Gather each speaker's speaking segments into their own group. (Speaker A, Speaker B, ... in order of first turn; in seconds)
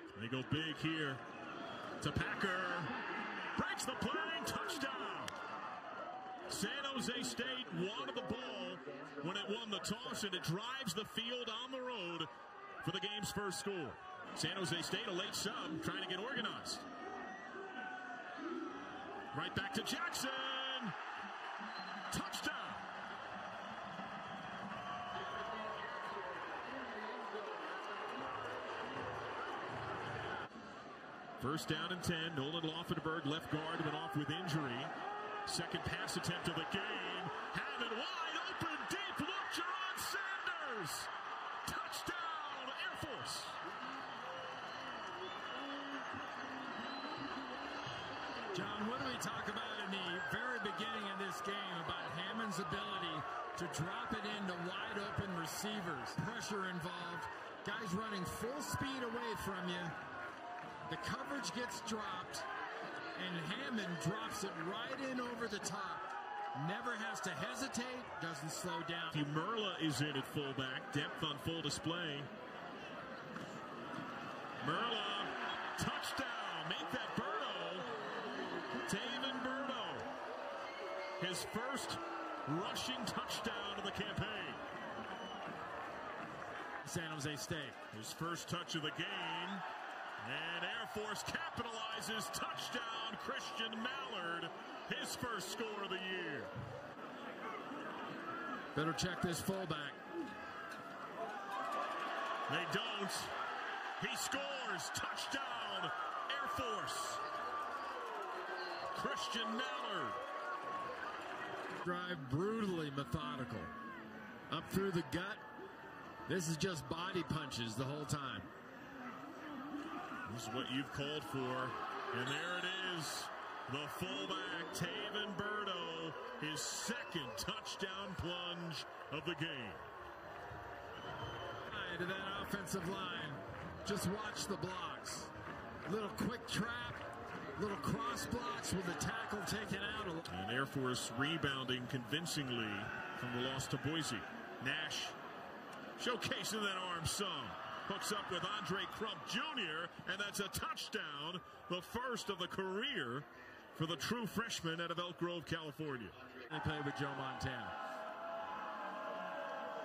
Speaker A: 0.1-1.2, 2.0-2.9, 3.5-5.4, 6.5-12.3, 12.8-16.9, 19.3-21.0, 22.1-22.9, 31.4-34.9, 35.5-41.1, 41.6-43.6, 69.1-72.3, 74.6-77.9, 78.8-80.1, 81.2-84.6, 87.9-89.7, 90.2-96.5, 102.5-103.3, 104.0-107.2, 108.9-110.2, 120.2-129.8, 140.3-145.2, 146.0-156.2
Speaker B: 48.5-60.0, 60.9-62.5, 63.1-69.2, 86.8-87.8, 98.7-100.0, 111.8-113.7, 114.5-115.4, 116.3-118.5, 131.7-135.3, 135.9-137.0, 137.6-140.3, 156.5-157.8